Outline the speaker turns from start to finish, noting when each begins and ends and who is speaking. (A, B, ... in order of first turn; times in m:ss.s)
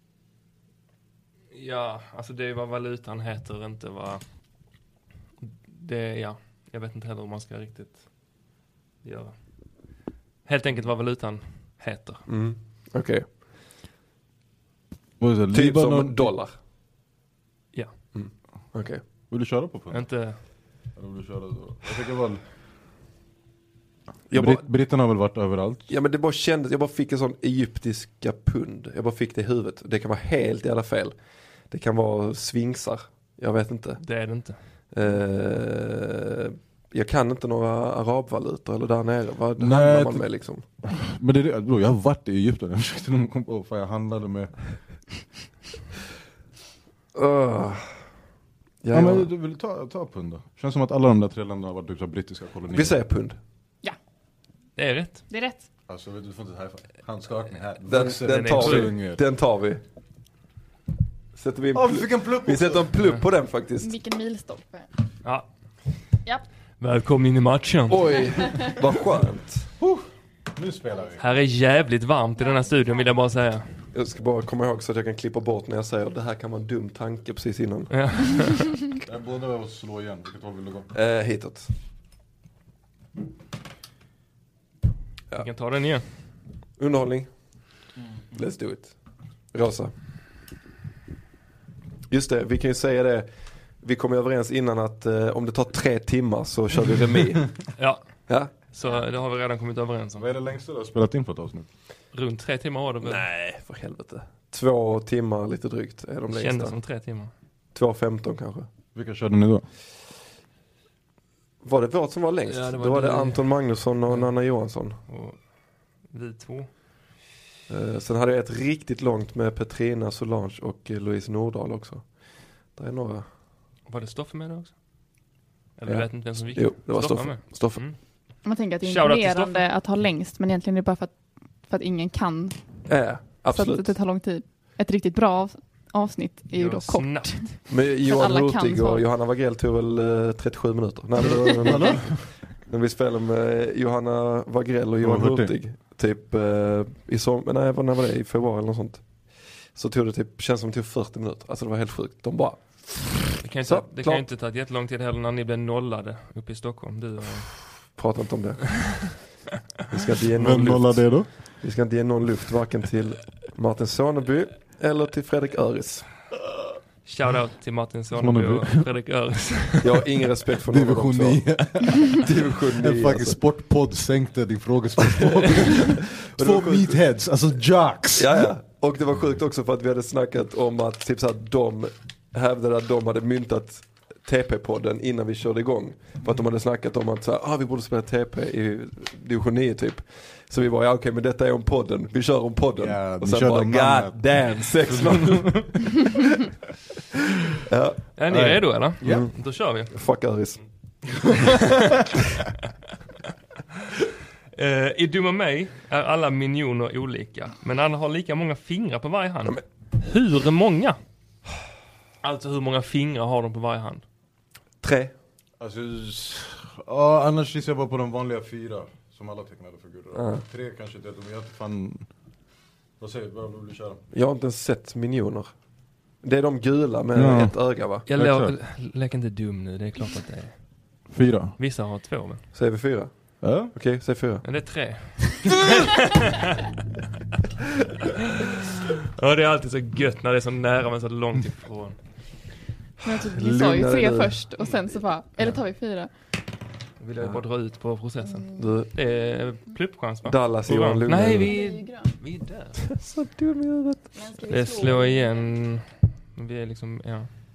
0:01.5-0:04.2 A
0:05.4-0:08.1 A
0:09.0-0:09.9 A
0:10.4-0:12.2 A
0:12.3-0:13.3 B
0:15.2-0:16.3 C
0:15.5-0:16.5 B
0:18.1-0:19.0 B
0:19.3-0:20.1 C
0:19.9-0:20.4 A
0:21.0-0:22.4 C
0:24.3-0:24.6 B
0:24.3-0:25.9 C
0:25.9-0:31.1 B
0:31.7-0:34.0 B
0:34.0-0:34.6 A
0:34.9-0:40.6 B
0:39.6-0:40.2 C
0:40.8-0:44.5 C
0:47.1-0:47.9 B
0:48.8-0:49.3 B
0:48.9-0:53.0 C
0:52.7-0:53.4 B
0:54.8-0:55.2 A
0:55.3-0:55.6 D
0:55.9-0:59.2 C
0:57.8-0:59.8 B
0:58.2-0:58.9 A
1:01.4-1:03.9 B
1:01.7-1:03.0 C
1:03.8-1:04.9 D
1:06.8-1:08.3 A
1:07.9-1:09.7 B
1:09.8-1:11.2 C
1:11.2-1:13.7 A
1:12.4-1:13.1 D
1:13.9-1:17.9 B
1:17.9-1:18.8 A
1:19.0-1:20.9 C
1:20.9-1:21.7 B
1:25.4-1:26.0 A
1:26.8-1:27.3 B
1:28.3-1:29.0 B
1:29.5-1:29.9 B
1:32.1-1:33.3 B
1:33.8-1:37.5 B
1:37.8-1:40.3 A
1:38.3-1:38.5 B
1:40.2-1:41.7 C
1:42.1-1:43.2 A
1:43.0-1:46.7 B
1:46.3-1:47.3 A
1:47.7-1:48.7 B
1:48.9-1:49.6 C
1:51.6-1:55.0 B
1:52.5-1:54.3 A
1:55.1-1:55.4 A
1:56.0-1:56.7 A
1:57.7-2:03.2 B
2:03.8-2:04.7 A
2:05.8-2:08.0 A
2:05.8-2:07.8 B
2:08.4-2:12.6 D
2:08.8-2:09.6 A
2:12.9-2:13.9 B
2:13.5-2:19.0 D
2:16.5-2:17.5 A
2:17.7-2:34.2 B
2:21.2-2:22.2 C
2:25.0-2:25.5 C
2:33.4-2:37.6 A
2:38.0-2:39.1 B
2:39.9-2:46.0 B
2:40.4-2:41.3 C
2:47.0-2:50.0 A
2:48.1-2:48.9 C
2:49.8-2:51.4 B
2:50.7-2:58.5 C
2:52.1-2:53.4 B
2:55.0-2:57.0 B
2:58.2-3:15.9 B
3:12.8-3:16.1 C
3:17.6-3:18.0 B
3:18.2-3:19.9 A
3:18.3-3:19.2 C
3:19.0-3:19.3 B
3:19.9-3:20.6 B
3:24.5-3:31.0 A
3:32.2-3:34.0 A
3:34.8-3:35.1 B
3:35.6-3:42.1 C
3:40.1-3:40.4 B
3:43.0-3:44.0 C
3:44.1-3:45.5 B
3:46.2-3:48.0 B
3:47.2-3:48.5 C
3:48.1-3:50.6 A
3:51.1-3:51.6 C
3:51.6-3:52.4 A
3:52.5-3:54.4 B
3:53.4-3:53.7 C
3:54.4-3:56.7 A
3:58.4-4:02.0 A
4:03.0-4:04.4 B
4:03.0-4:06.1 D
4:07.0-4:12.9 A
4:08.2-4:08.7 D
4:08.6-4:08.9 B
4:10.2-4:11.5 B
4:11.4-4:12.1 D
4:12.9-4:14.1 B
4:14.1-4:15.6 D
4:14.5-4:17.3 A